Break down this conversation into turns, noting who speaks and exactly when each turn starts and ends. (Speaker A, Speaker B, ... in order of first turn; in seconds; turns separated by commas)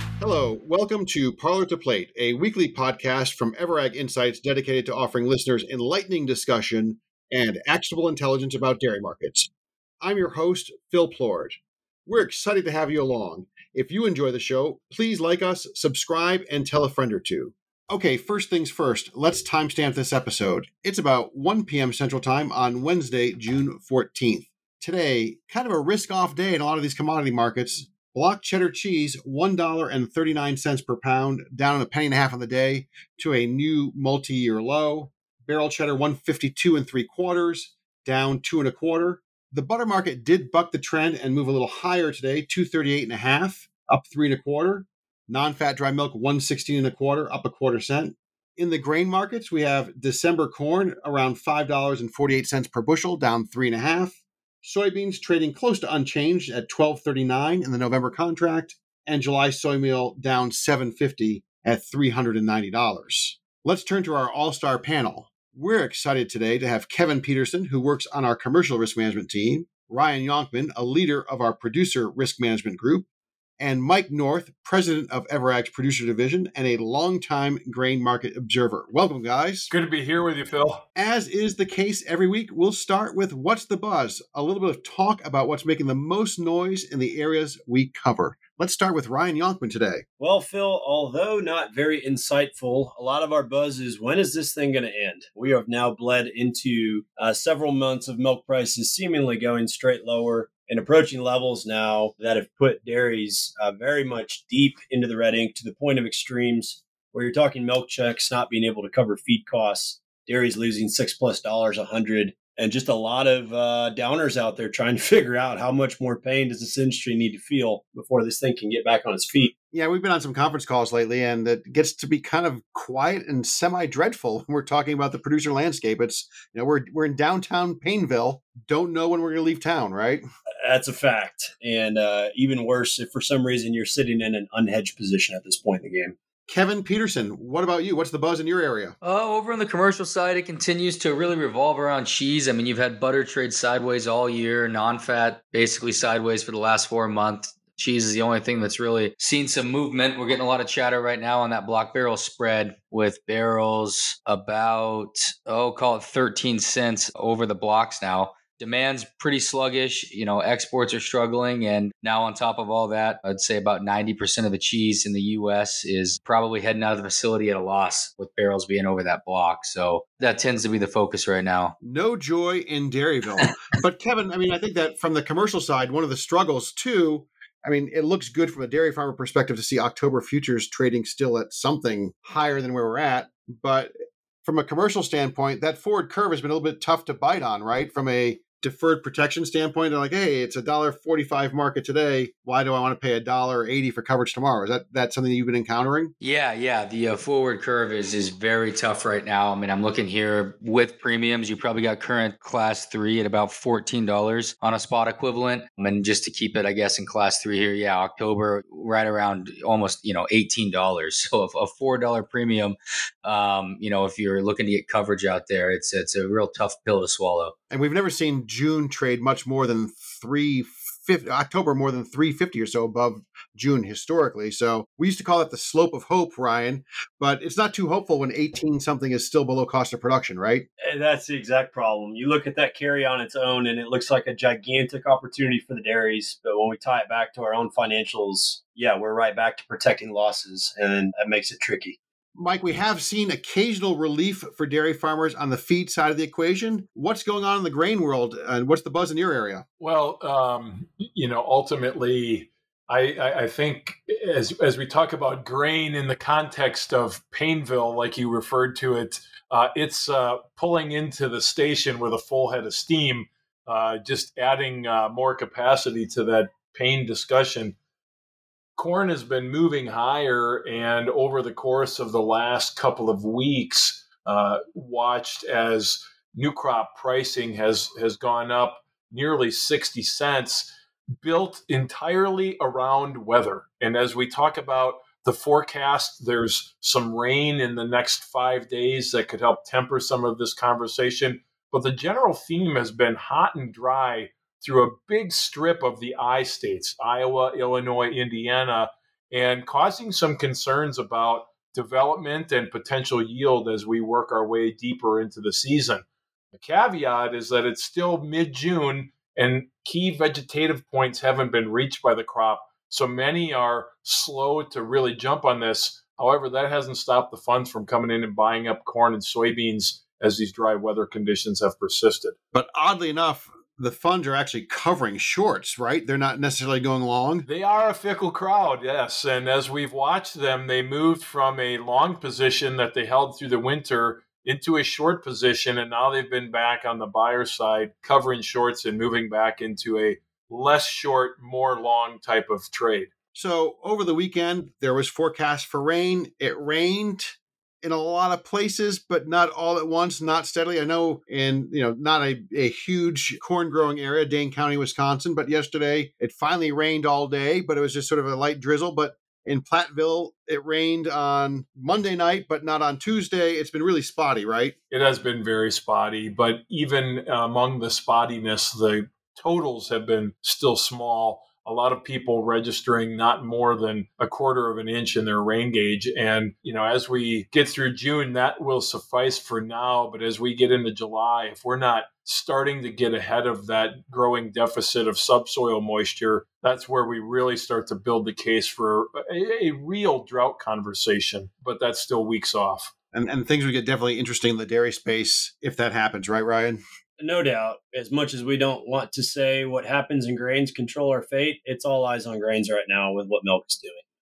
Speaker A: 0.2-9.5, Speaker A: 10.0-73.0, Speaker A: 73.6-79.7, Speaker B: 79.7-80.8, Speaker A: 81.0-90.0, Speaker C: 90.2-119.5, Speaker A: 119.7-130.2, Speaker C: 130.6-136.1, Speaker A: 136.5-138.9, Speaker D: 139.0-171.7, Speaker A: 171.8-183.9, Speaker A: 184.4-196.1, Speaker D: 196.2-212.7, Speaker D: 213.2-217.5, Speaker A: 217.7-230.7, Speaker C: 230.8-241.9, Speaker A: 242.3-249.6, Speaker B: 249.8-267.8, Speaker B: 268.8-322.4, Speaker A: 322.5-327.4, Speaker B: 327.4-343.1, Speaker A: 343.3-364.7, Speaker B: 364.9-392.9, Speaker A: 393.1-396.8, Speaker C: 397.2-404.0